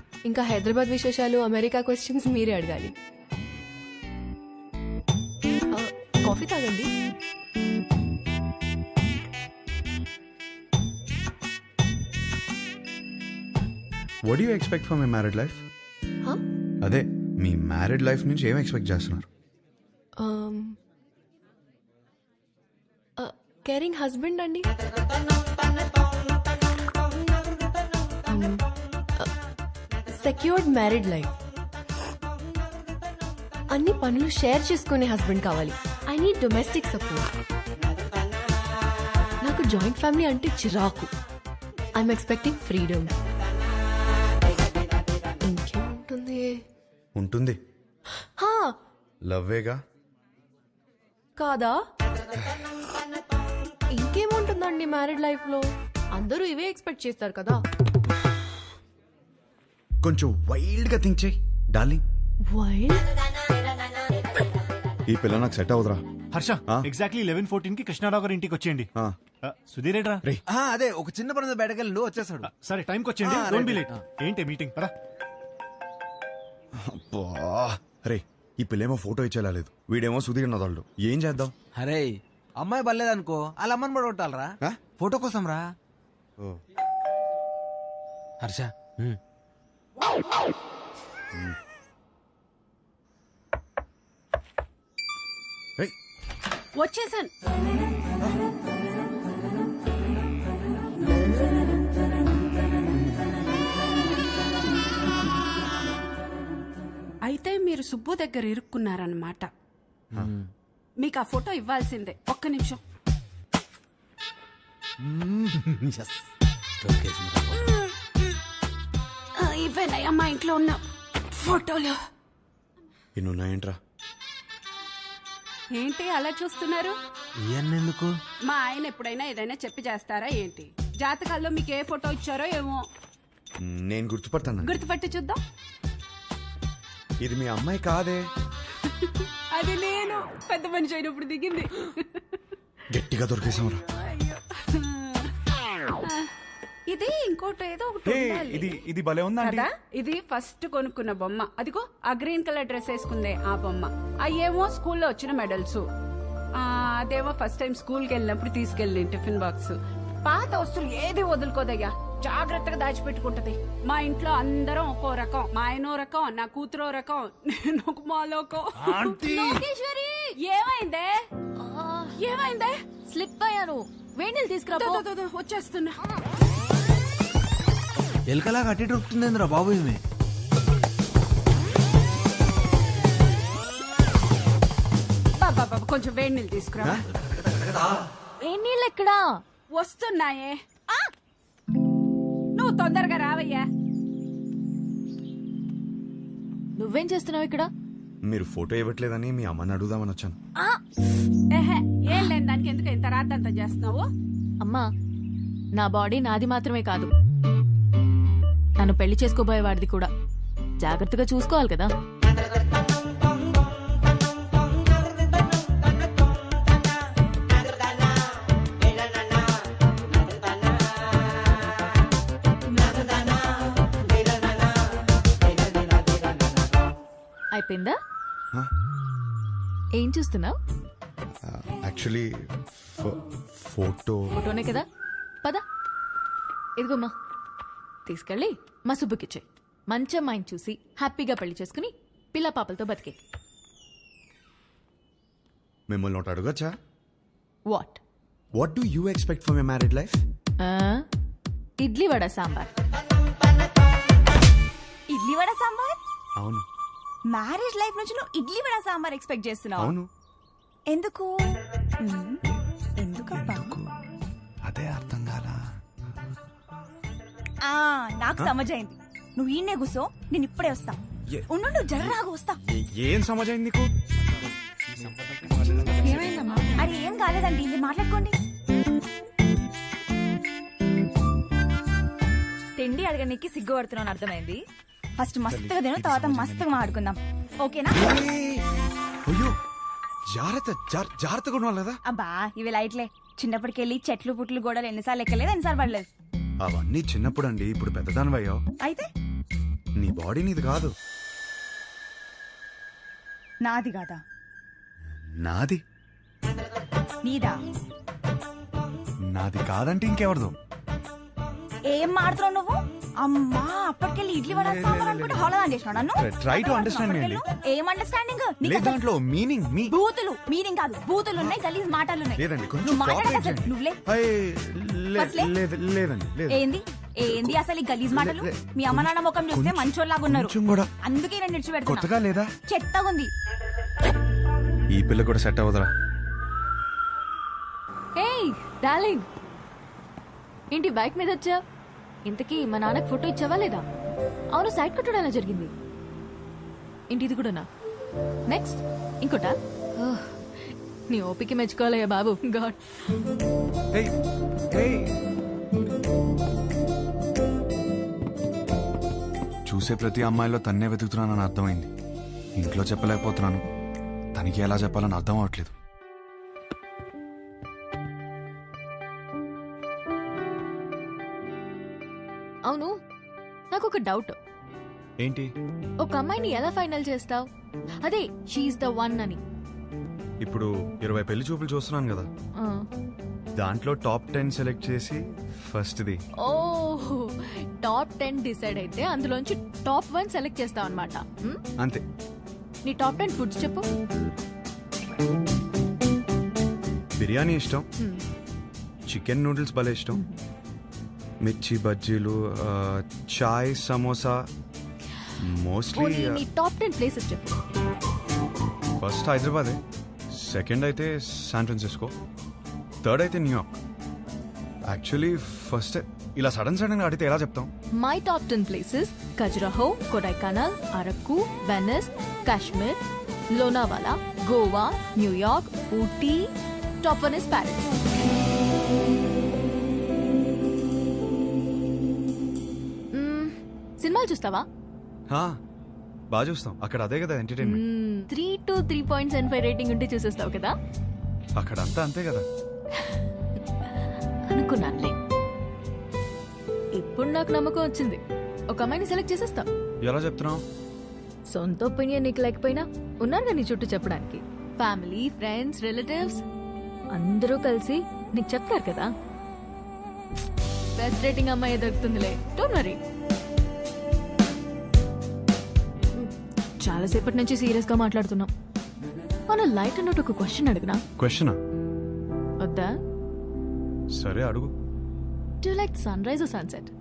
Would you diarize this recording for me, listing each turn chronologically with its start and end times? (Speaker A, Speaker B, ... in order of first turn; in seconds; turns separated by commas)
Speaker A: 0.3-2.9, Speaker A: 5.7-6.9, Speaker B: 14.3-15.6, Speaker B: 16.8-19.3, Speaker A: 20.2-20.8, Speaker A: 23.2-24.7, Speaker A: 28.3-28.6, Speaker A: 30.1-31.3, Speaker A: 33.7-37.3, Speaker A: 39.4-41.1, Speaker A: 42.0-43.1, Speaker A: 45.4-46.6, Speaker B: 47.2-47.6, Speaker A: 48.4-48.8, Speaker B: 49.2-49.8, Speaker A: 51.4-51.8, Speaker A: 53.9-57.6, Speaker B: 60.0-62.0, Speaker A: 62.5-63.0, Speaker B: 65.1-66.0, Speaker C: 66.3-68.9, Speaker C: 69.5-70.2, Speaker D: 70.5-72.5, Speaker C: 72.5-74.9, Speaker D: 73.2-74.0, Speaker B: 76.8-81.5, Speaker D: 81.8-85.7, Speaker D: 88.4-89.2, Speaker E: 96.8-97.3, Speaker E: 107.2-109.5, Speaker D: 110.2-110.5, Speaker E: 111.0-112.8, Speaker D: 115.1-116.2, Speaker D: 116.8-117.7, Speaker E: 119.4-120.8, Speaker E: 121.3-122.0, Speaker B: 123.2-123.8, Speaker E: 125.7-127.0, Speaker D: 127.5-128.1, Speaker E: 128.5-132.8, Speaker B: 133.6-134.8, Speaker E: 134.6-135.4, Speaker B: 137.2-138.3, Speaker E: 138.8-142.2, Speaker B: 142.9-143.8, Speaker E: 144.2-145.3, Speaker E: 146.0-146.3, Speaker E: 146.9-148.8, Speaker B: 148.1-149.7, Speaker E: 149.4-155.8, Speaker E: 156.6-169.2, Speaker D: 168.8-169.6, Speaker F: 169.2-170.3, Speaker E: 170.4-171.2, Speaker F: 171.6-172.2, Speaker E: 172.2-172.8, Speaker F: 173.1-175.1, Speaker E: 174.8-176.0, Speaker D: 178.3-180.0, Speaker E: 185.4-187.0, Speaker B: 186.8-187.9, Speaker F: 188.4-189.2, Speaker E: 189.7-190.6, Speaker E: 192.6-193.7, Speaker F: 196.8-197.7, Speaker B: 198.3-200.4, Speaker E: 201.5-204.1, Speaker F: 205.8-207.1, Speaker F: 208.8-210.1, Speaker F: 210.8-211.9, Speaker F: 227.5-228.0, Speaker F: 230.0-230.6, Speaker B: 231.4-234.4, Speaker F: 234.4-234.9, Speaker F: 236.8-237.1, Speaker F: 238.1-243.2, Speaker B: 245.9-246.7, Speaker F: 247.7-248.0, Speaker B: 248.6-250.2, Speaker F: 250.6-251.1, Speaker F: 251.8-252.7, Speaker G: 255.1-256.0, Speaker B: 256.4-256.7, Speaker G: 257.3-259.9, Speaker B: 259.8-260.1, Speaker G: 260.9-261.3, Speaker G: 262.0-262.4, Speaker G: 263.0-263.8, Speaker B: 263.3-263.9, Speaker B: 264.7-265.6, Speaker G: 267.7-271.0, Speaker B: 271.3-273.9, Speaker G: 271.5-272.6, Speaker A: 276.2-276.7, Speaker G: 276.8-278.4, Speaker G: 282.8-284.6, Speaker G: 285.2-288.0, Speaker B: 285.5-286.9, Speaker B: 287.9-288.6, Speaker B: 289.3-289.5, Speaker B: 290.3-292.0, Speaker G: 292.1-296.1, Speaker B: 296.6-298.6, Speaker G: 298.8-299.1, Speaker B: 300.0-300.9, Speaker G: 303.6-304.2, Speaker B: 305.4-305.8, Speaker G: 307.2-307.6, Speaker B: 309.3-310.6, Speaker G: 311.9-319.0, Speaker B: 314.5-315.6, Speaker B: 316.1-317.4, Speaker B: 318.6-320.0, Speaker G: 319.9-324.0, Speaker B: 321.4-321.6, Speaker B: 322.4-326.7, Speaker G: 325.2-325.5, Speaker G: 326.5-332.1, Speaker B: 327.2-330.9, Speaker B: 331.8-332.5, Speaker G: 332.7-333.3, Speaker B: 334.9-335.9, Speaker F: 338.2-339.3, Speaker F: 340.7-341.6, Speaker F: 342.3-343.9, Speaker F: 344.5-345.7, Speaker F: 347.1-347.7, Speaker F: 348.5-350.4, Speaker F: 351.1-352.8, Speaker B: 354.7-355.1, Speaker B: 359.7-361.9, Speaker B: 362.6-363.6, Speaker B: 364.4-365.7, Speaker F: 373.7-374.4, Speaker B: 375.2-375.5, Speaker F: 376.0-377.5, Speaker F: 378.0-379.4, Speaker B: 380.4-382.3, Speaker F: 382.6-382.9, Speaker B: 383.6-386.2, Speaker F: 386.4-391.6, Speaker F: 392.9-393.9, Speaker B: 397.2-397.9, Speaker B: 399.1-400.2, Speaker F: 400.1-400.4, Speaker B: 401.4-404.4, Speaker B: 405.4-406.4, Speaker F: 405.9-407.6, Speaker B: 409.0-409.8, Speaker B: 410.3-412.1, Speaker B: 413.0-413.8, Speaker B: 414.9-417.7, Speaker F: 418.0-423.0, Speaker F: 423.5-426.5, Speaker F: 427.0-427.9, Speaker F: 433.1-434.6, Speaker B: 435.3-435.6, Speaker B: 436.3-437.8, Speaker F: 437.6-440.8, Speaker B: 441.6-442.5, Speaker F: 444.5-445.1, Speaker F: 447.0-449.7, Speaker B: 450.0-450.6, Speaker F: 451.5-456.4, Speaker F: 457.1-459.1, Speaker F: 461.0-463.0, Speaker F: 466.8-468.5, Speaker F: 469.5-471.0, Speaker B: 471.2-471.6, Speaker F: 472.6-472.9, Speaker B: 474.1-474.7, Speaker F: 475.6-476.9